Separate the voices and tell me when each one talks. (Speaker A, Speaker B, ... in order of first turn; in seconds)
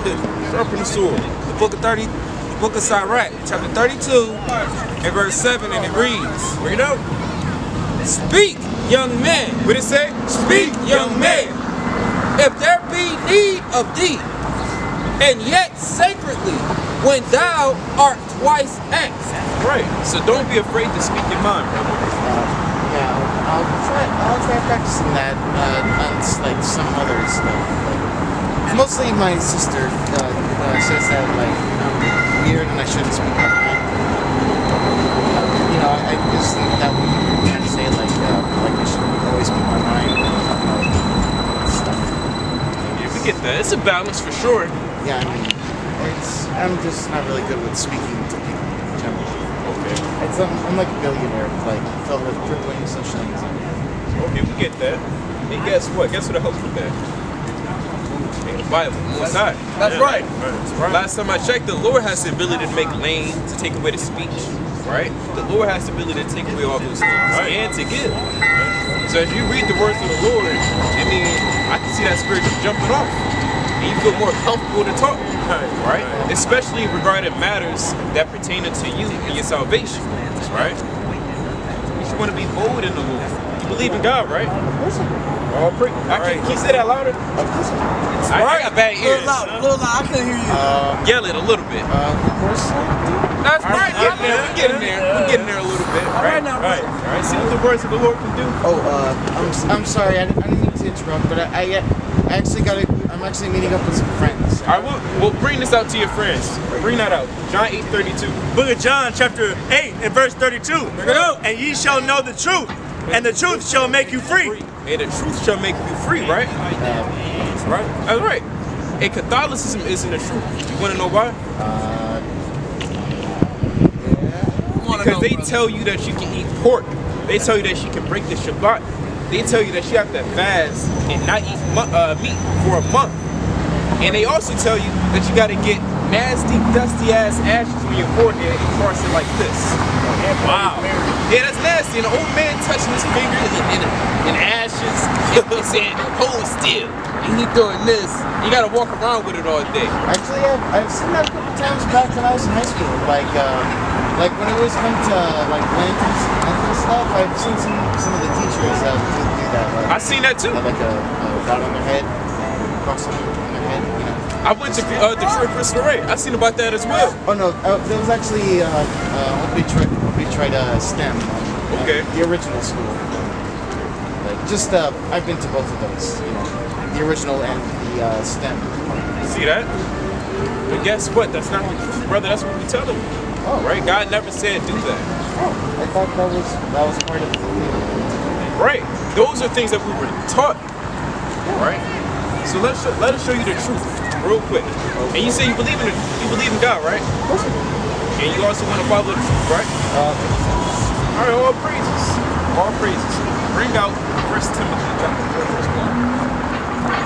Speaker A: 0.4-1.3, 6.6-7.0, 9.6-11.6, 19.6-22.1, 42.9-44.7, 49.6-50.0, 54.1-57.0, 58.4-68.2, 69.0-73.2, 73.8-80.8, 82.0-84.5, 85.5-87.2, 88.3-89.5, 91.0-91.9, 93.6-98.6, 104.7-108.4, 111.0-111.3, 113.0-116.5, 117.7-118.5, 119.0-121.4, 124.9-133.2, 134.0-139.8, 141.3-149.9, 159.9-160.6, 164.4-167.2, 171.7-172.1, 179.2-179.7, 180.7-185.1, 188.6-190.6, 191.5-191.8, 192.4-197.1, 198.2-199.7, 201.1-206.0
Speaker B: 1.4-4.5, 5.0-6.6, 8.0-9.7, 10.4-11.6, 12.4-14.3, 15.2-19.3, 88.3-88.8, 93.4-94.9, 111.0-111.4
Speaker C: 22.2-28.1, 28.7-33.9, 35.3-42.3, 42.8-43.3, 45.0-49.4, 50.2-53.6, 76.1-76.3, 84.7-85.2, 86.2-86.6, 87.3-87.9, 90.5-91.2, 91.9-93.3, 98.6-104.9, 116.7-117.1, 121.6-122.3, 123.8-124.7, 140.0-140.3, 150.1-162.1, 162.7-165.1, 167.2-173.4, 174.2-179.2, 183.4-183.7, 185.3-188.3, 191.4-191.7, 194.9-195.5, 197.3-197.6, 199.9-200.3
Speaker D: 59.2-60.3, 89.0-90.7, 93.7-95.5, 96.1-97.6, 124.7-125.7, 140.1-141.2
Speaker E: 59.9-60.6, 67.3-67.6, 75.5-76.1, 93.9-94.6, 96.6-96.9, 108.5-114.6, 140.4-140.8